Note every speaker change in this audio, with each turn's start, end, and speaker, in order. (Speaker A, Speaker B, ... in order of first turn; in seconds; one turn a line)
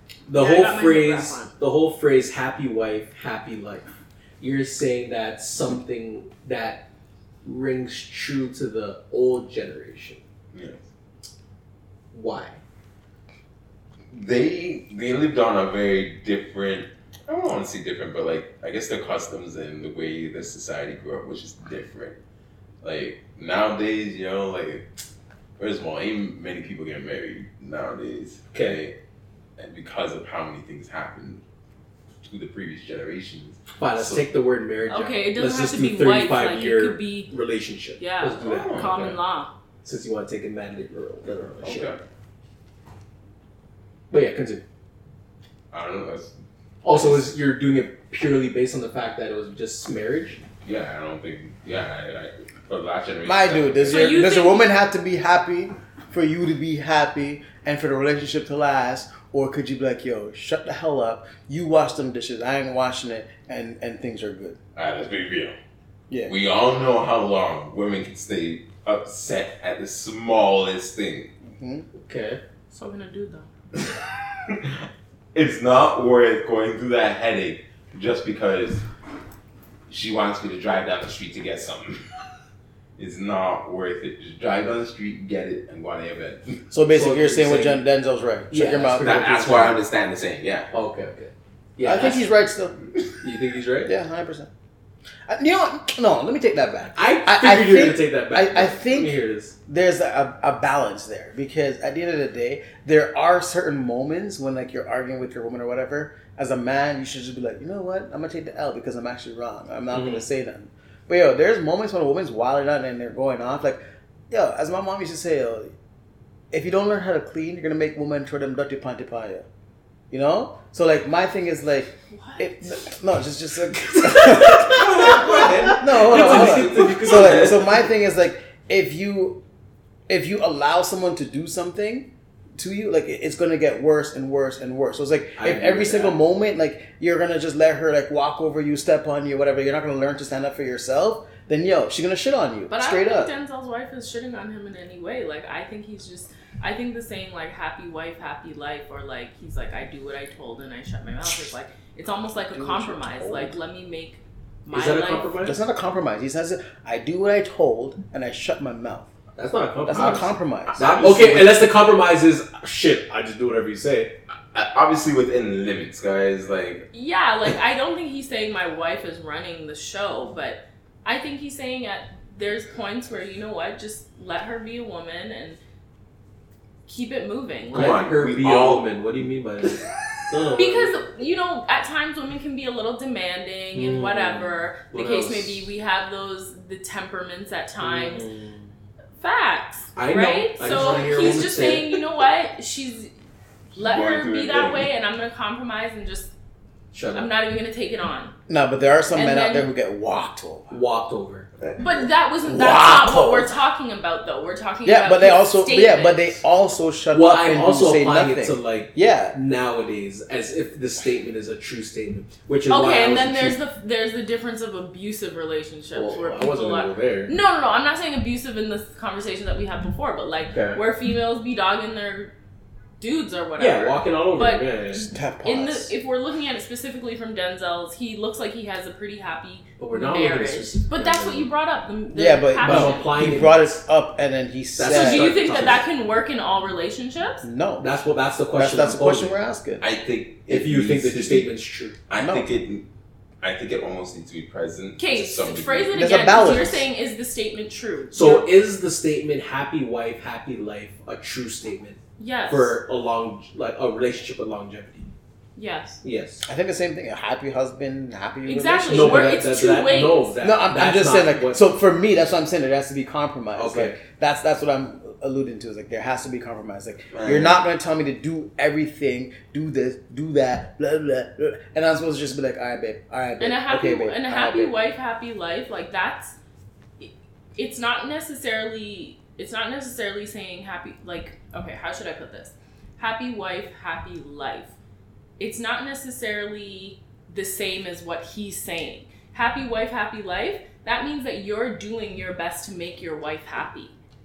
Speaker A: 0.3-3.9
Speaker B: 0.4-1.5
Speaker A: 4.4-6.9
Speaker A: 7.4-10.2
Speaker C: 10.5-10.9
Speaker A: 12.1-12.6
Speaker C: 14.1-22.1
Speaker C: 22.8-24.9
Speaker C: 25.6-29.0
Speaker A: 28.5-28.8
Speaker C: 29.6-31.4
Speaker C: 32.2-34.3
Speaker A: 33.8-39.2
Speaker B: 34.9-37.3
Speaker B: 38.0-39.5
Speaker C: 38.4-39.0
Speaker A: 39.8-42.0
Speaker C: 41.6-42.0
Speaker A: 44.1-44.6
Speaker C: 45.7-47.3
Speaker A: 46.8-50.4
Speaker C: 50.6-54.2
Speaker D: 53.2-64.6
Speaker B: 53.9-54.6
Speaker C: 64.8-65.6
Speaker D: 66.1-66.3
Speaker C: 66.3-71.3
Speaker D: 71.4-71.9
Speaker A: 72.0-72.4
Speaker B: 72.7-73.5
Speaker C: 74.5-74.8
Speaker C: 75.3-78.8
Speaker C: 79.9-82.3
Speaker C: 83.0-86.7
Speaker D: 86.7-89.4
Speaker A: 86.9-87.8
Speaker A: 88.5-89.8
Speaker C: 88.9-90.7
Speaker A: 90.7-92.3
Speaker D: 91.8-92.9
Speaker A: 93.2-93.9
Speaker D: 93.9-94.5
Speaker D: 95.3-115.8
Speaker A: 97.0-99.5
Speaker A: 109.9-110.3
Speaker D: 116.5-119.5
Speaker D: 120.1-129.4
Speaker B: 122.1-122.5
Speaker A: 124.0-127.7
Speaker C: 124.6-127.6
Speaker D: 130.1-143.3
Speaker A: 135.4-136.2
Speaker B: 142.7-155.3
Speaker D: 152.5-153.5
Speaker A: 154.7-155.6
Speaker D: 155.4-159.1
Speaker A: 159.4-164.1
Speaker D: 159.9-161.5
Speaker C: 160.7-161.4
Speaker C: 164.5-166.9
Speaker B: 166.9-175.6
Speaker B: 176.9-178.1
Speaker C: 177.7-179.0
Speaker A: 177.7-181.0
Speaker C: 179.8-180.2
Speaker B: 180.6-188.2
Speaker A: 183.7-185.7
Speaker A: 187.8-188.7
Speaker B: 189.2-193.1
Speaker A: 189.9-192.0
Speaker C: 193.7-194.9
Speaker B: 193.8-196.3
Speaker A: 196.9-197.3
Speaker B: 197.1-198.3
Speaker D: 198.5-200.8
Speaker B: 199.1-199.7
Speaker A: 200.7-201.5
Speaker C: 201.6-202.1
Speaker B: 201.8-206.3
Speaker D: 202.4-203.5
Speaker D: 204.8-209.4
Speaker A: 207.1-213.6
Speaker B: 212.7-222.3
Speaker A: 215.9-217.3
Speaker A: 220.5-220.8
Speaker B: 223.0-233.5
Speaker A: 223.6-225.1
Speaker D: 225.1-225.9
Speaker A: 229.8-231.5
Speaker D: 232.1-235.6
Speaker A: 232.6-233.7
Speaker A: 234.8-235.8
Speaker B: 234.8-237.4
Speaker D: 237.4-237.9
Speaker A: 237.8-239.4
Speaker D: 238.6-239.8
Speaker C: 239.8-241.5
Speaker A: 240.5-242.0
Speaker C: 242.1-242.8
Speaker D: 242.1-242.5
Speaker C: 243.4-246.1
Speaker B: 245.0-248.4
Speaker D: 245.9-246.8
Speaker A: 248.1-255.1
Speaker B: 252.2-252.8
Speaker B: 255.6-256.0
Speaker A: 256.0-256.4
Speaker D: 256.4-259.4
Speaker B: 258.4-260.4
Speaker A: 258.9-261.6
Speaker D: 260.4-274.7
Speaker A: 263.6-264.0
Speaker C: 267.1-267.6
Speaker B: 273.4-276.4
Speaker B: 277.0-284.7
Speaker B: 285.4-293.9